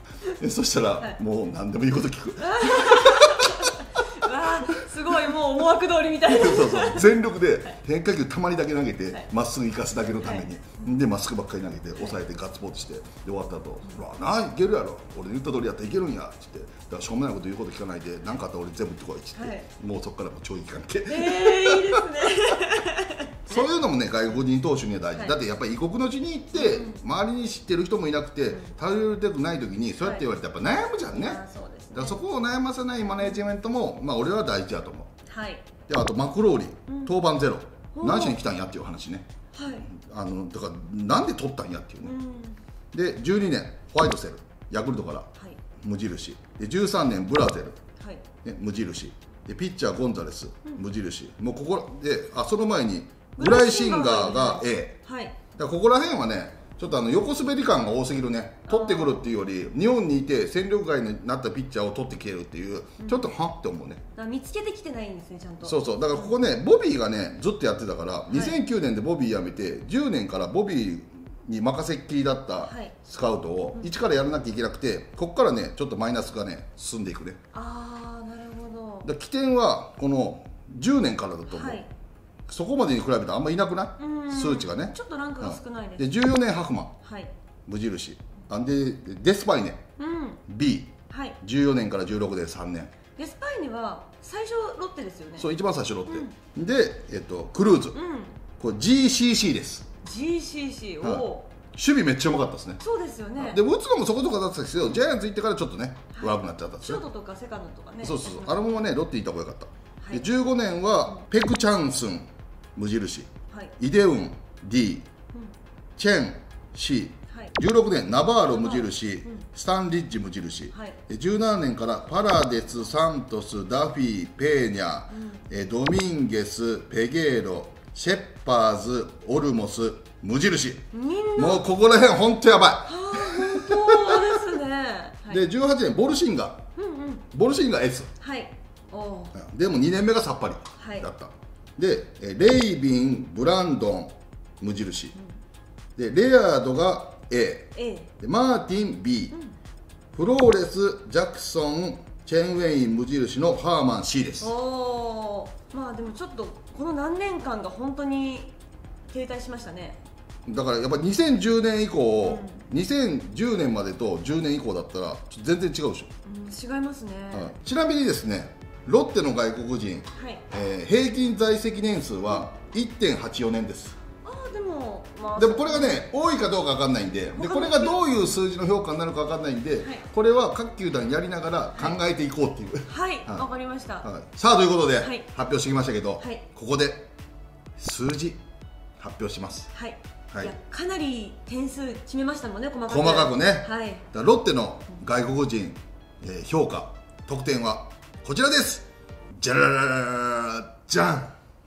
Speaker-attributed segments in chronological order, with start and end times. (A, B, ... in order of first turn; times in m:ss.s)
0:00.3-0:03.6 A
0:02.4-0:07.8 B
0:04.4-0:05.4 A
0:06.2-0:22.3 A
0:10.2-0:10.5 B
0:19.4-0:19.7 B
0:21.1-0:23.7 B
0:23.5-0:31.4 A
0:26.5-0:27.0 B
0:31.1-0:32.3 B
0:31.9-0:35.1 A
0:35.3-0:35.7 B
0:35.9-0:39.3 A
0:36.9-0:37.2 B
0:38.0-0:38.4 B
0:39.5-0:39.9 B
0:39.9-0:42.2 A
0:42.0-0:42.6 B
0:42.9-0:45.3 A
0:45.8-0:47.8 A
0:48.0-0:48.2 B
0:48.4-0:55.0 A
0:53.4-0:55.4 B
0:55.6-1:04.0 A
0:58.7-0:59.3 B
1:03.0-1:03.3 B
1:04.2-1:06.4 B
1:05.6-1:17.4 A
1:08.3-1:08.6 B
1:12.6-1:12.9 B
1:17.5-1:19.1 B
1:19.0-1:21.8 A
1:21.5-1:21.9 B
1:22.5-1:27.0 A
1:24.0-1:26.1 B
1:27.0-1:27.3 B
1:27.7-1:29.8 A
1:30.0-1:30.4 B
1:30.5-1:32.9 A
1:31.1-1:31.4 B
1:33.2-1:35.5 B
1:35.4-1:38.0 A
1:36.1-1:36.3 B
1:37.9-1:38.4 B
1:38.6-1:39.9 A
1:40.0-1:41.5 B
1:41.0-1:42.8 A
1:42.8-1:43.6 B
1:43.4-1:47.0 A
1:46.2-1:48.7 B
1:48.0-1:55.1 A
1:50.0-1:50.3 B
1:53.5-1:53.7 B
1:56.0-2:10.8 A
1:58.5-1:59.4 B
2:00.7-2:01.0 B
2:05.1-2:05.4 B
2:10.9-2:11.7 B
2:11.4-2:14.4 A
2:12.8-2:15.4 B
2:15.3-2:16.7 A
2:16.8-2:17.2 B
2:17.3-2:18.1 A
2:18.2-2:19.4 B
2:19.4-2:25.2 A
2:20.8-2:21.1 B
2:26.0-2:29.4 A
2:27.8-2:28.1 B
2:30.1-2:34.5 A
2:34.4-2:38.6 B
2:39.1-2:40.0 B
2:40.5-2:46.1 A
2:42.2-2:42.6 B
2:46.2-2:47.6 B
2:47.3-2:54.0 A
2:50.1-2:50.4 B
2:54.2-2:56.1 B
2:55.4-3:03.5 A
2:57.3-2:58.0 B
3:02.9-3:04.1 B
3:04.0-3:07.1 A
3:05.0-3:05.3 B
3:06.2-3:06.4 B
3:07.8-3:08.4 A
3:09.0-3:09.7 A
3:09.7-3:14.0 B
3:12.9-3:18.9 A
3:19.4-3:21.3 A